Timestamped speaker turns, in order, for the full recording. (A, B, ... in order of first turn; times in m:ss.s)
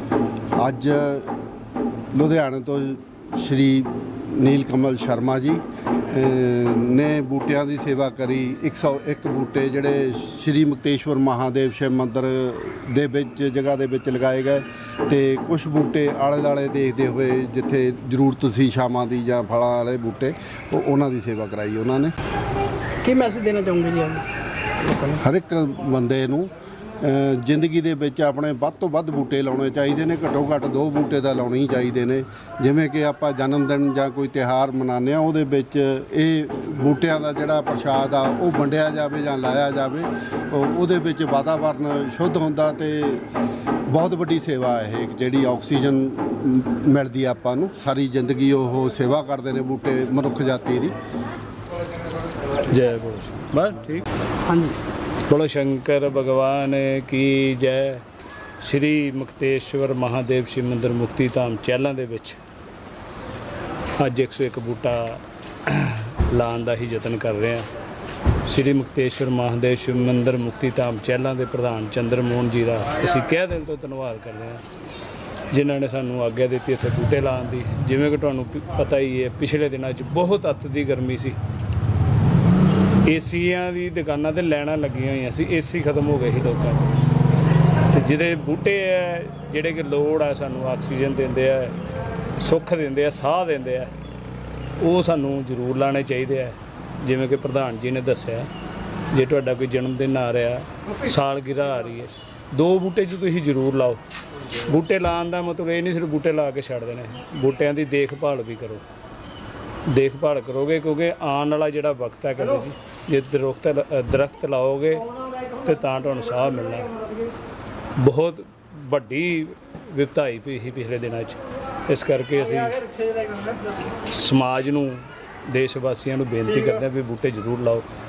0:00.6-0:01.3 A
0:02.1-0:22.1 A
0:23.0-0:24.2 B
0:24.8-0:25.2 B
0:25.2-0:43.3 A
0:43.9-0:50.9 A
0:52.7-0:54.0 C
0:54.5-0:54.8 B
0:55.3-0:58.0 C
0:58.6-1:02.4 C
1:04.0-1:07.7 C
1:08.4-1:14.6 C
1:15.5-1:21.4 C
1:23.0-1:26.9 C
1:27.9-1:31.8 C
1:32.4-1:33.9 C
1:34.8-1:38.5 C
1:39.1-1:44.0 C
1:44.6-1:48.8 C
1:49.9-1:55.0 C
1:55.6-1:56.9 C
1:58.0-2:03.0 C
2:04.0-2:07.9 C